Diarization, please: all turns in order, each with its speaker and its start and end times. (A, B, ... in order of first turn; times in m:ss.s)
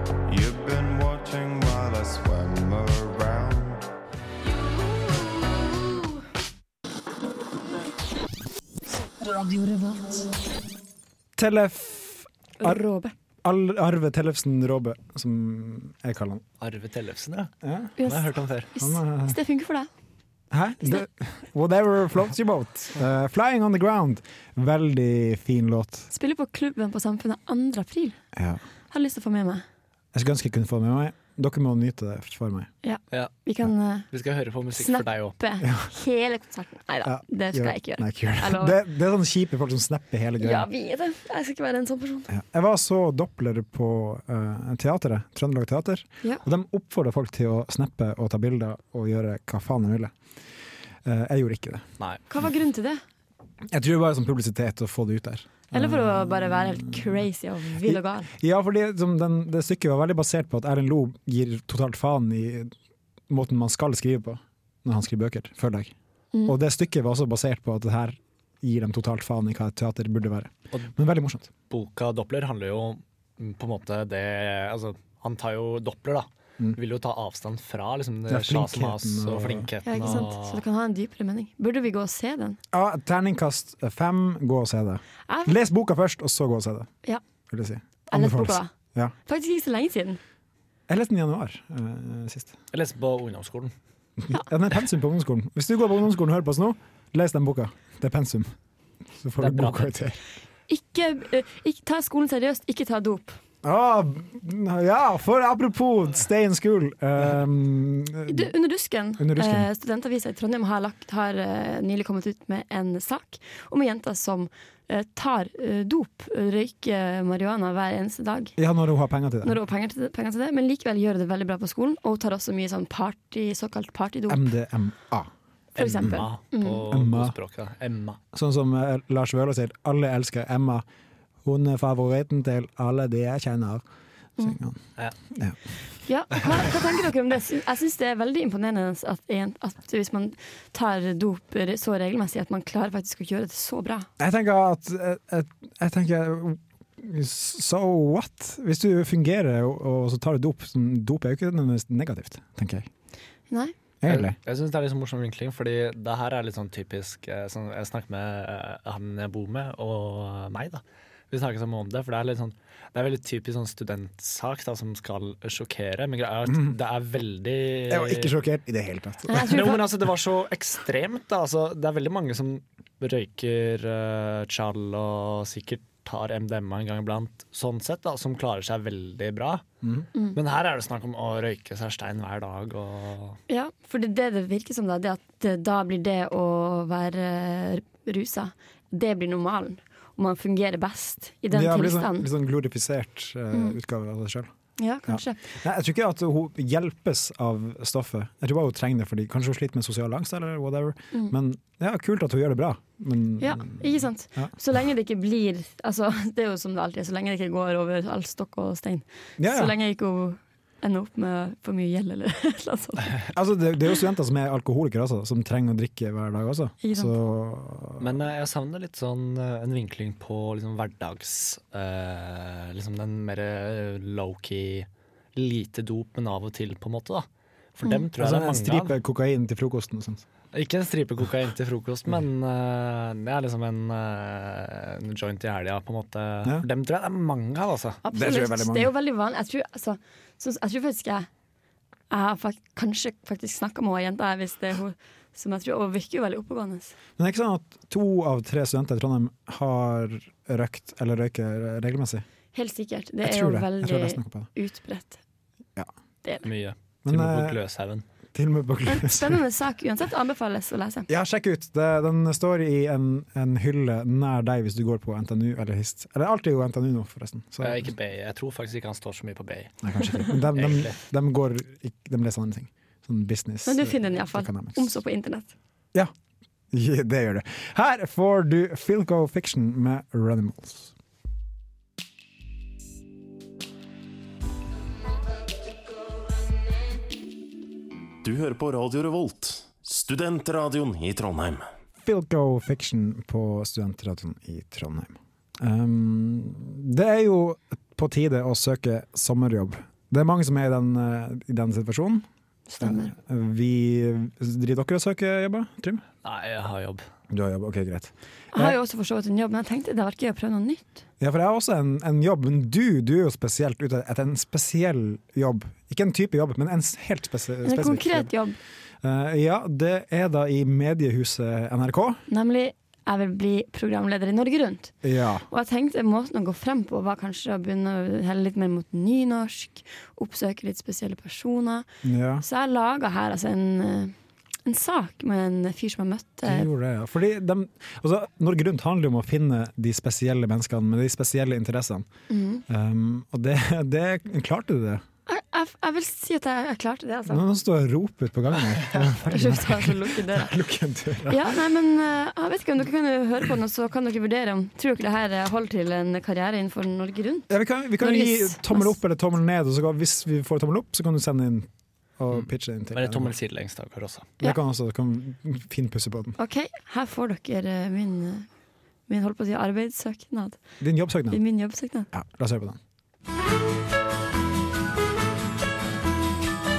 0:00.3-0:03.8 A
0:09.4-0:10.2 B
0:11.4-0:12.8 C
0:12.6-0:13.1 B
0:13.4-0:16.4 C
0:16.6-0:17.5 D
0:17.6-0:17.9 C
0:18.0-0:19.9 B
0:18.0-0:18.7 D
0:18.8-0:19.4 C
0:20.5-0:26.1 C
0:26.1-0:28.2 B
0:28.3-0:28.6 C
0:28.9-0:29.6 B
0:30.1-0:32.7 C
0:32.8-0:34.1 B
0:34.1-0:35.3 D
0:34.7-0:38.8 B
0:35.6-0:35.9 C
0:37.0-0:40.7 C
0:40.4-0:42.3 B
0:42.3-0:50.1 C
0:51.0-0:51.8 C
0:52.3-0:53.0 B
0:53.7-0:57.2 C
0:55.7-0:58.3 B
0:57.8-1:02.7 C
1:03.3-1:05.9 C
1:06.4-1:11.5 C
1:11.7-1:20.6 D
1:18.3-1:20.2 C
1:19.8-1:22.6 B
1:22.7-1:26.9 C
1:25.3-1:25.6 B
1:27.5-1:29.1 C
1:28.1-1:28.7 B
1:29.2-1:30.2 B
1:30.9-1:32.5 C
1:32.7-1:33.7 D
1:34.2-1:38.5 C
1:39.2-1:40.2 C
1:39.4-1:39.9 D
1:40.7-1:43.4 B
1:43.6-1:48.5 C
1:48.3-1:58.5 B
1:49.2-1:49.7 C
1:58.6-1:59.6 C
1:59.4-2:04.5 B
2:04.3-2:05.3 C
2:05.8-2:08.2 D
2:05.8-2:06.8 B
2:06.9-2:07.4 C
2:08.3-2:10.8 C
2:11.4-2:13.8 C
2:14.4-2:14.8 C
2:15.3-2:15.6 C
2:16.0-2:24.1 B
2:24.2-2:32.9 C
2:34.0-2:34.4 C
2:34.1-2:48.3 D
2:46.5-2:46.7 C
2:47.9-2:49.7 C
2:49.3-2:49.8 B
2:49.3-2:59.7 D
3:00.3-3:03.4 D
3:03.5-3:12.3 B
3:11.5-3:14.5 C
3:13.5-3:13.8 B
3:14.8-3:15.4 B
3:15.1-3:24.5 C
3:23.4-3:33.2 B
3:29.4-3:29.7 C
3:33.3-3:38.1 C
3:36.8-3:37.1 B
3:38.0-3:47.2 D
3:47.8-3:49.0 D
3:47.8-3:48.1 B
3:48.2-3:50.2 C
3:50.5-3:58.0 D
3:58.0-4:01.3 B
3:58.1-3:58.9 C
4:02.1-4:06.9 B
4:07.2-4:12.2 C
4:12.5-4:15.2 B
4:13.2-4:14.5 C
4:16.4-4:18.0 D
4:17.0-4:17.6 C
4:18.3-4:19.4 C
4:18.8-4:21.1 B
4:21.1-4:27.9 C
4:27.6-4:31.0 D
4:29.8-4:35.0 C
4:33.6-4:35.5 B
4:36.7-4:40.9 C
4:48.2-4:51.6 E
4:52.0-5:02.2 C
5:02.7-5:03.1 B
5:02.8-5:06.0 C
5:06.2-5:07.0 D
5:07.3-5:08.8 C
5:08.5-5:11.0 B
5:11.2-5:18.3 C
5:17.6-5:18.6 B
5:19.0-5:22.2 C
5:22.3-5:24.9 B
5:25.0-5:25.5 C
5:25.5-5:31.8 B
5:32.0-5:32.4 C
5:32.4-5:34.1 B
5:34.6-5:36.7 B
5:36.4-5:42.1 C
5:42.3-5:42.6 B
5:42.7-5:45.0 C
5:45.3-5:47.4 B
5:47.3-5:51.6 C
5:49.2-5:50.5 B
5:51.3-5:57.5 B
5:57.5-6:03.3 C
5:58.0-5:59.0 B
6:02.3-6:04.3 D
6:04.4-6:06.4 C
6:06.4-6:08.5 B
6:09.1-6:10.6 B
6:10.8-6:11.4 C
6:11.3-6:12.1 B
6:12.1-6:12.8 C